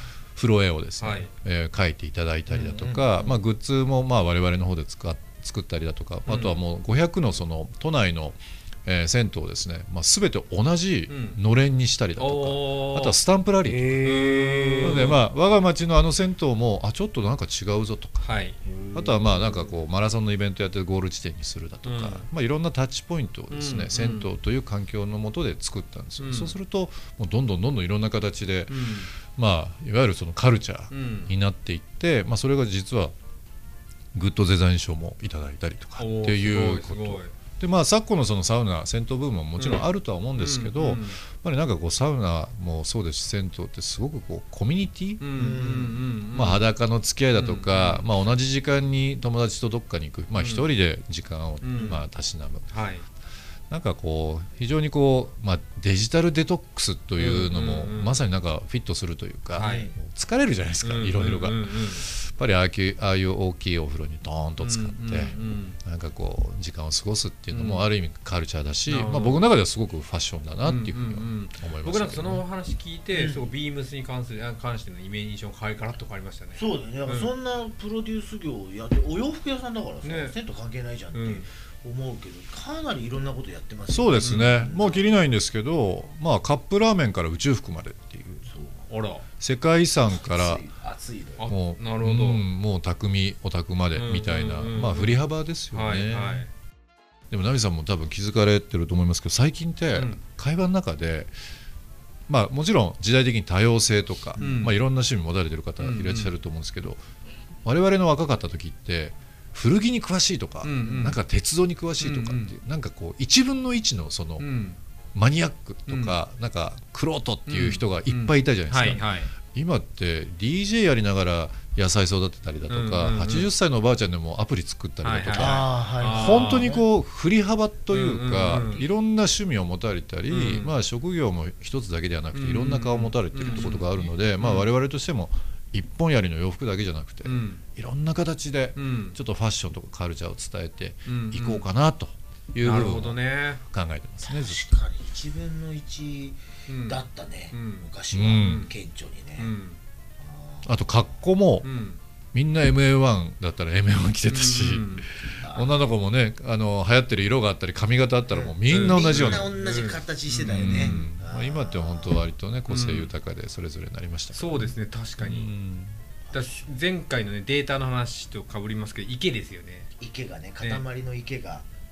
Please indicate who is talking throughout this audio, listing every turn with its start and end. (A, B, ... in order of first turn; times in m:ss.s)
0:00.4-0:14.2 A
0:01.0-0:01.3 B
0:02.5-0:03.4 C
0:06.3-0:06.6 B
0:11.1-0:11.4 B
0:12.2-0:13.2 B
0:13.9-0:14.9 C
0:14.0-0:15.2 B
0:14.8-0:18.3 A
0:18.2-0:18.6 B
0:18.7-0:19.7 C
0:18.9-0:33.1 A
0:21.8-0:22.3 B
0:23.5-0:24.3 B
0:26.2-0:26.6 B
0:28.7-0:29.1 B
0:30.9-0:31.3 B
0:34.1-0:45.3 A
0:36.0-0:37.3 B
0:39.6-0:41.2 B
0:45.2-0:46.7 B
0:45.4-0:46.0 C
0:46.3-0:52.7 A
0:47.3-0:48.1 B
0:50.4-0:50.7 B
0:51.6-0:52.1 B
0:52.7-0:53.0 B
0:53.7-1:12.4 A
0:57.2-0:58.2 B
0:59.5-0:59.9 B
0:59.6-0:59.9 C
1:00.8-1:02.0 B
1:04.6-1:05.8 B
1:07.5-1:07.9 B
1:08.9-1:09.4 B
1:10.6-1:17.3 B
1:13.1-1:13.4 C
1:16.6-1:25.1 C
1:20.0-1:20.4 B
1:21.1-1:21.5 B
1:23.9-1:28.5 A
1:24.2-1:24.7 B
1:28.4-1:28.9 C
1:28.9-1:29.2 B
1:29.4-1:30.7 A
1:30.0-1:31.5 C
1:31.4-1:32.4 B
1:31.5-1:36.4 A
1:33.9-1:36.5 B
1:37.3-1:41.3 A
1:39.9-1:40.2 B
1:42.3-1:47.0 A
1:44.4-1:44.8 B
1:45.8-1:46.3 B
1:47.6-1:54.4 A
1:50.6-1:51.2 B
1:52.0-1:52.6 B
1:54.4-1:54.8 B
1:55.2-2:24.7 A
1:55.9-1:56.2 B
1:57.5-1:59.3 B
2:02.7-2:03.5 B
2:05.0-2:06.7 B
2:05.4-2:06.9 C
2:07.9-2:08.9 B
2:10.3-2:10.8 B
2:12.3-2:14.7 B
2:17.2-2:17.6 B
2:18.8-2:19.2 B
2:21.1-2:21.7 B
2:22.6-2:23.6 B
2:24.2-2:29.5 C
2:26.7-2:28.7 B
2:28.1-2:28.7 A
2:29.4-2:29.8 B
2:30.2-2:31.2 C
2:30.6-2:31.7 A
2:31.6-2:32.0 B
2:32.3-2:39.5 A
2:34.3-2:35.1 B
2:35.3-2:35.9 C
2:38.3-2:42.2 C
2:38.7-2:41.1 B
2:40.5-2:46.0 A
2:42.7-2:43.1 B
2:44.3-2:45.5 B
2:46.2-2:46.7 C
2:46.3-2:49.9 B
2:50.0-2:51.7 C